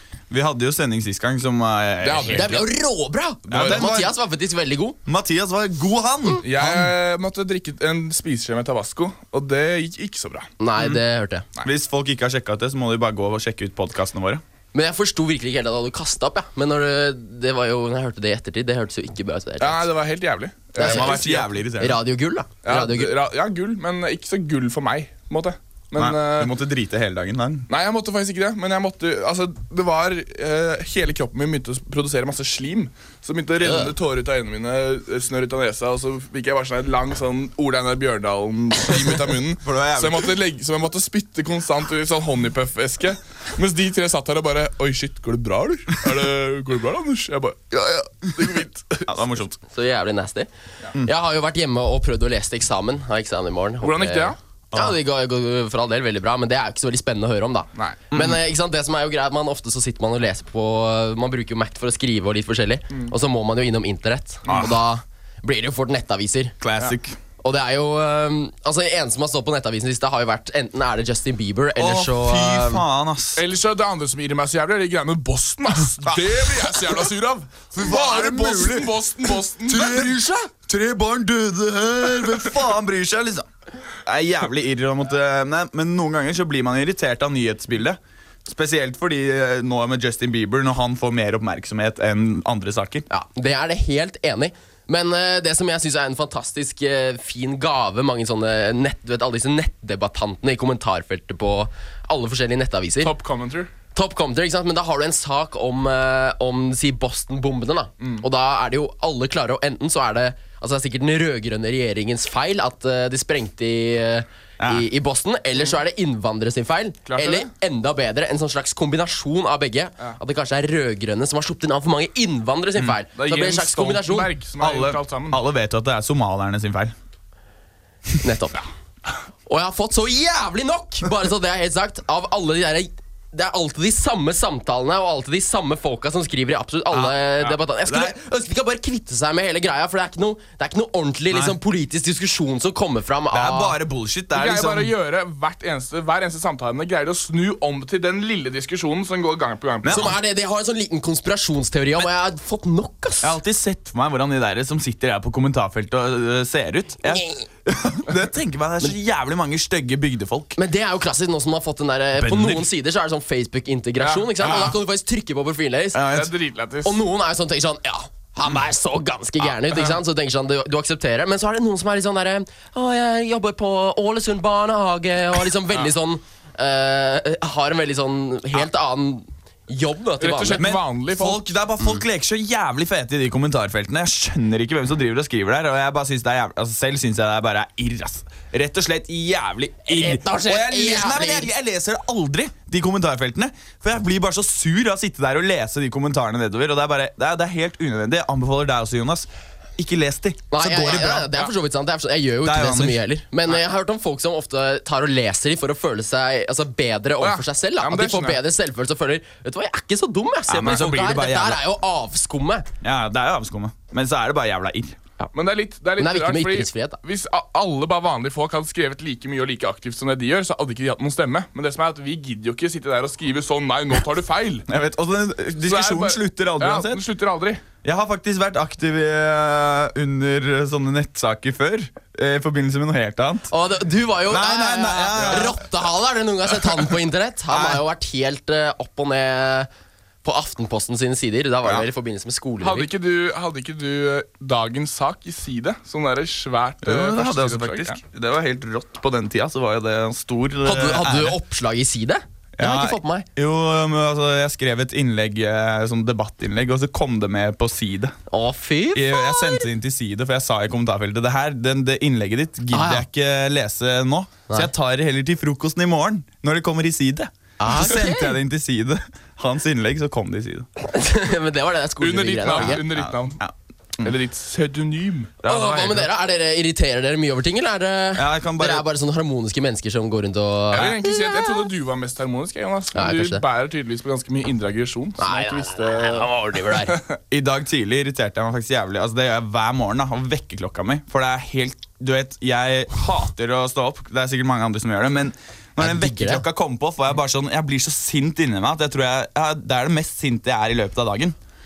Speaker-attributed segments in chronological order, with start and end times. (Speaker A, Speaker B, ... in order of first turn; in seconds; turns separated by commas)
Speaker A: 0.3-2.6, Speaker B: 2.0-2.6, Speaker C: 2.3-5.0, Speaker A: 3.5-4.1, Speaker A: 5.0-6.9, Speaker B: 6.4-10.5, Speaker C: 10.6-11.4, Speaker A: 10.8-11.0, Speaker A: 11.6-14.4, Speaker C: 14.7-19.9, Speaker B: 19.6-21.5, Speaker C: 20.8-23.1, Speaker A: 20.8-22.0, Speaker B: 22.6-26.5, Speaker A: 25.9-27.7, Speaker B: 27.7-49.1, Speaker C: 33.6-33.9, Speaker A: 39.6-40.3, Speaker A: 49.1-49.6, Speaker C: 49.7-50.5, Speaker C: 51.0-66.6, Speaker B: 53.8-54.4, Speaker A: 54.7-55.0, Speaker A: 58.1-58.4, Speaker A: 64.5-64.7, Speaker A: 66.6-67.2, Speaker C: 67.4-72.8, Speaker A: 71.8-73.4, Speaker B: 73.3-80.1, Speaker A: 76.0-77.0, Speaker A: 77.7-78.9, Speaker A: 79.6-93.0, Speaker C: 93.1-103.1, Speaker B: 103.0-103.7, Speaker C: 103.9-124.3, Speaker A: 114.6-114.9, Speaker B: 117.0-117.5, Speaker B: 123.1-125.4, Speaker A: 124.6-126.9, Speaker C: 128.2-128.6, Speaker C: 129.4-143.8, Speaker A: 136.9-138.2, Speaker A: 141.3-141.5, Speaker A: 143.3-144.9, Speaker B: 144.3-150.1, Speaker A: 149.8-150.2, Speaker C: 149.9-153.3, Speaker A: 153.2-160.6, Speaker C: 157.0-157.4, Speaker C: 160.6-166.0, Speaker A: 162.2-162.7, Speaker B: 164.0-164.6, Speaker A: 164.4-164.7, Speaker A: 165.9-166.3, Speaker B: 166.1-167.0, Speaker C: 166.8-180.6, Speaker B: 180.2-181.4, Speaker A: 180.6-201.3, Speaker C: 189.9-191.5, Speaker C: 200.5-212.7, Speaker B: 200.9-201.5, Speaker A: 202.4-203.0, Speaker B: 207.2-208.4, Speaker A: 210.5-211.6, Speaker A: 212.8-215.0, Speaker B: 215.3-224.7, Speaker C: 216.0-217.0, Speaker A: 224.7-227.0, Speaker B: 225.6-227.6, Speaker A: 227.8-233.5, Speaker C: 233.5-239.7, Speaker A: 234.2-235.6, Speaker A: 237.5-237.8, Speaker C: 240.2-242.9, Speaker B: 242.6-248.0, Speaker A: 246.8-251.4, Speaker C: 250.6-253.2, Speaker A: 252.6-258.1, Speaker C: 258.3-259.6, Speaker A: 258.9-270.7, Speaker C: 262.7-263.0, Speaker C: 267.6-268.3, Speaker C: 270.9-272.8, Speaker B: 272.0-273.4, Speaker A: 272.5-274.1, Speaker B: 274.0-275.4, Speaker A: 275.4-276.1, Speaker C: 275.4-281.6, Speaker A: 278.1-278.9, Speaker B: 280.7-286.3, Speaker C: 282.9-283.4, Speaker C: 285.2-287.0, Speaker A: 287.3-301.4, Speaker C: 295.8-296.4